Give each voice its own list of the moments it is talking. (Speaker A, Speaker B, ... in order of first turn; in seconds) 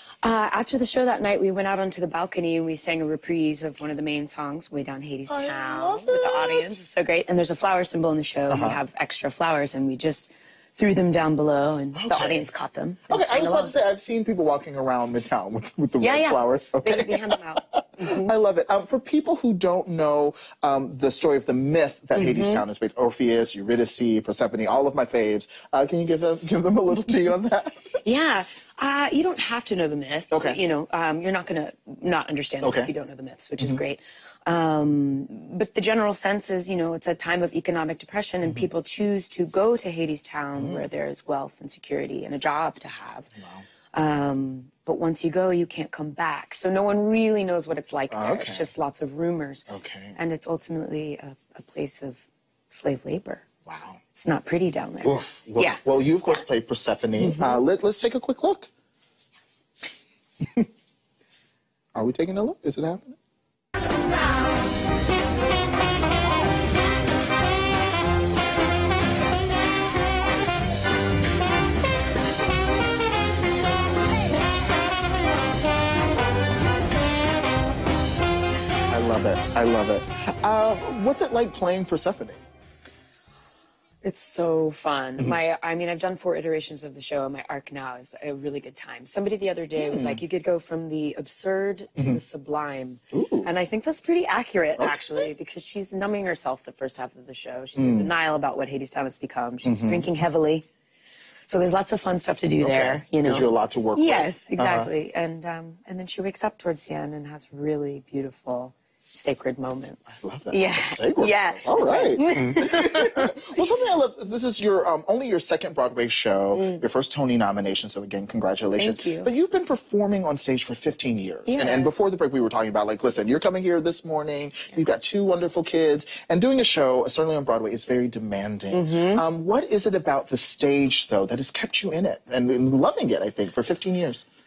Speaker A: 0.2-13.7, 16.0-18.3, 22.1-22.6, 28.1-43.3, 43.9-53.5, 54.1-56.4, 57.2-57.6, 84.0-100.7, 101.5-113.3, 116.5-116.8, 118.8-119.3, 121.5-121.9, 128.7-129.2
Speaker B: 5.3-6.8, 8.5-8.8, 12.0-12.5, 13.1-27.9, 30.3-30.6, 32.6-32.9, 40.6-40.8, 43.4-43.6, 48.1-48.7, 49.7-50.2, 53.7-54.0, 55.0-58.7, 62.0-63.2, 78.9-82.4, 89.8-90.2, 93.1-93.5, 94.8-95.3, 97.8-98.1, 99.6-100.1, 102.6-104.9, 110.1-134.3